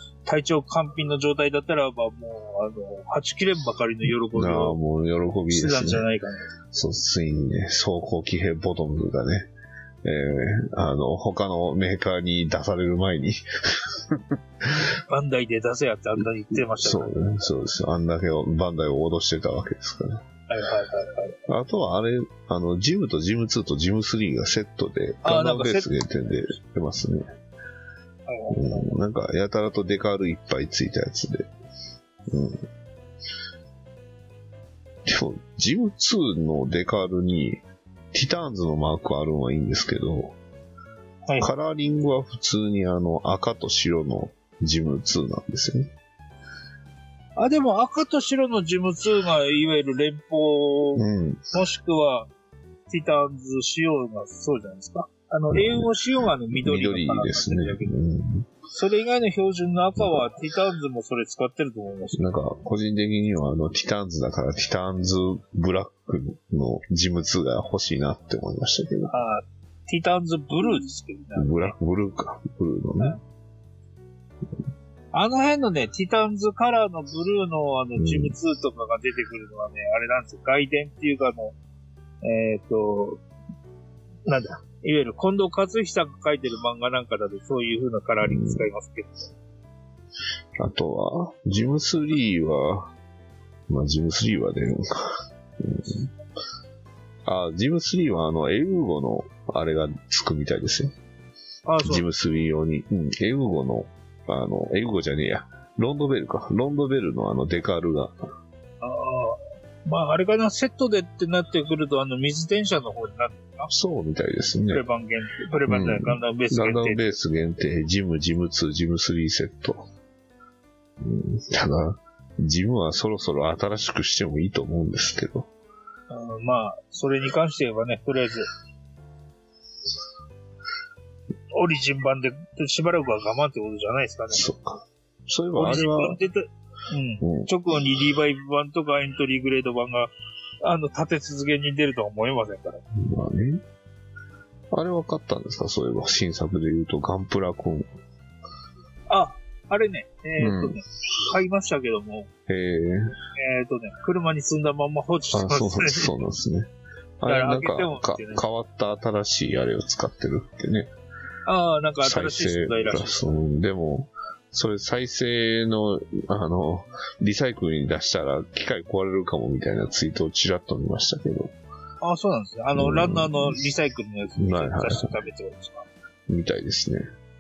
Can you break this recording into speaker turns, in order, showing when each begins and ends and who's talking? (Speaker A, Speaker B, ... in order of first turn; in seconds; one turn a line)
Speaker A: 0.2-4.8
Speaker B: 4.3-6.0
Speaker A: 5.5-6.4
Speaker B: 6.7-9.5
Speaker B: 10.0-14.9
Speaker A: 15.1-17.2
Speaker B: 16.5-20.2
Speaker A: 20.5-21.4
Speaker B: 21.5-27.2
Speaker A: 25.2-25.9
Speaker A: 28.3-28.9
Speaker B: 28.5-31.5
Speaker B: 32.3-32.6
Speaker B: 35.0-40.4
Speaker A: 41.3-41.5
Speaker B: 41.4-45.9
Speaker A: 47.4-52.3
Speaker B: 51.0-51.5
Speaker A: 52.9-57.9
Speaker B: 55.5-55.9
Speaker B: 56.5-58.5
Speaker A: 58.7-62.3
Speaker B: 60.0-60.2
Speaker B: 62.1-69.1
Speaker A: 69.1-71.8
Speaker B: 71.3-73.2
Speaker A: 75.1-81.6
Speaker B: 78.0-78.3
Speaker A: 82.2-83.2
Speaker A: 84.3-89.2
Speaker B: 88.2-88.7
Speaker B: 90.6-92.9
Speaker B: 93.7-96.1
Speaker B: 97.2-101.0
Speaker A: 101.7-102.0
Speaker B: 101.8-108.2
Speaker A: 108.8-113.7
Speaker B: 113.7-114.8
Speaker A: 114.7-117.1
Speaker B: 115.7-119.9
Speaker B: 121.0-125.5
Speaker A: 126.1-128.5
Speaker A: 131.5-134.5
Speaker B: 134.3-136.2
Speaker A: 135.6-140.1
Speaker B: 137.2-137.5
Speaker A: 140.6-142.8
Speaker B: 142.9-143.6
Speaker B: 144.7-147.9
Speaker A: 149.1-152.3
Speaker B: 150.4-150.8
Speaker B: 152.5-153.2
Speaker A: 153.4-156.2
Speaker B: 155.3-160.9
Speaker A: 157.3-158.4
Speaker A: 161.5-163.4
Speaker B: 162.0-171.6
Speaker A: 172.0-175.9
Speaker B: 172.8-173.6
Speaker B: 174.4-175.2
Speaker B: 176.3-177.0